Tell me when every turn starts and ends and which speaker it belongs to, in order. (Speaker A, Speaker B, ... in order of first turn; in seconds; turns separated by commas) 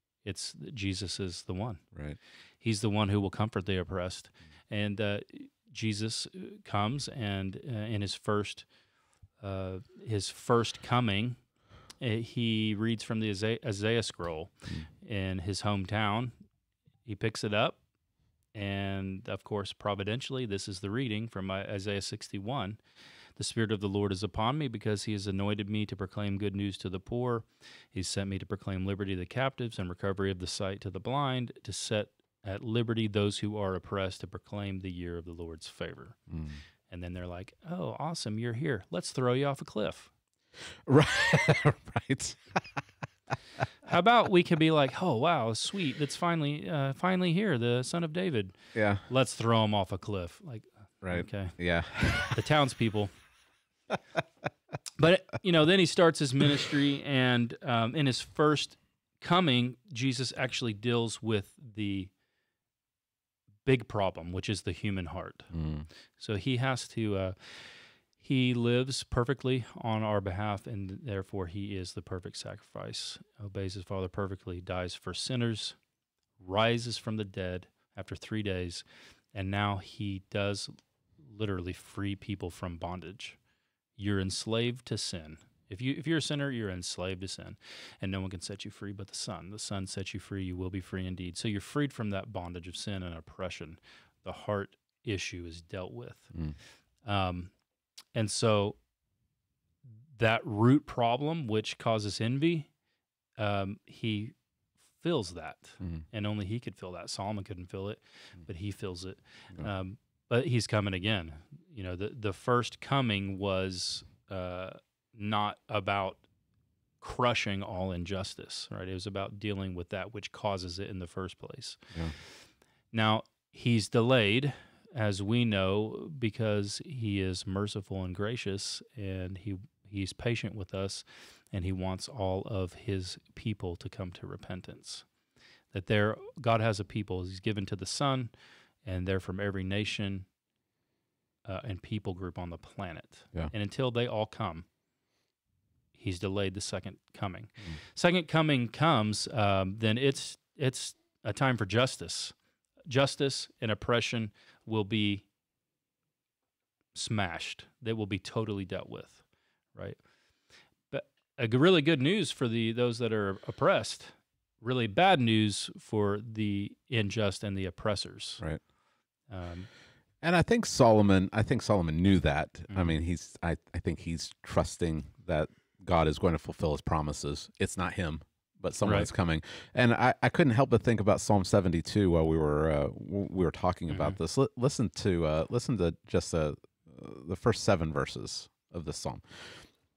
Speaker A: 0.2-1.8, Speaker B: 1.9-2.2, Speaker A: 2.6-8.7, Speaker A: 9.4-11.4, Speaker A: 12.0-16.3, Speaker A: 17.0-17.8, Speaker A: 18.5-22.8, Speaker A: 23.4-36.2, Speaker B: 36.3-36.6, Speaker A: 36.9-40.1, Speaker B: 40.8-42.6, Speaker A: 43.8-51.6, Speaker B: 48.7-49.0, Speaker B: 51.0-52.4, Speaker A: 52.2-53.1, Speaker A: 55.0-62.1, Speaker A: 63.6-65.5, Speaker B: 65.5-65.9, Speaker A: 66.2-75.8, Speaker A: 76.4-83.4, Speaker A: 84.0-96.3, Speaker A: 97.0-97.5, Speaker A: 98.1-98.8, Speaker A: 100.1-102.7, Speaker A: 103.4-104.3, Speaker A: 105.0-116.2, Speaker A: 117.0-121.8, Speaker A: 122.9-135.1, Speaker A: 135.7-138.3, Speaker A: 138.8-140.3, Speaker A: 141.4-144.7, Speaker A: 145.9-152.3, Speaker A: 152.9-155.2, Speaker A: 156.9-159.2, Speaker A: 159.7-160.0, Speaker A: 160.9-168.4, Speaker A: 169.3-169.7, Speaker B: 170.2-189.6, Speaker A: 172.7-173.0, Speaker A: 178.8-179.1, Speaker A: 183.9-184.2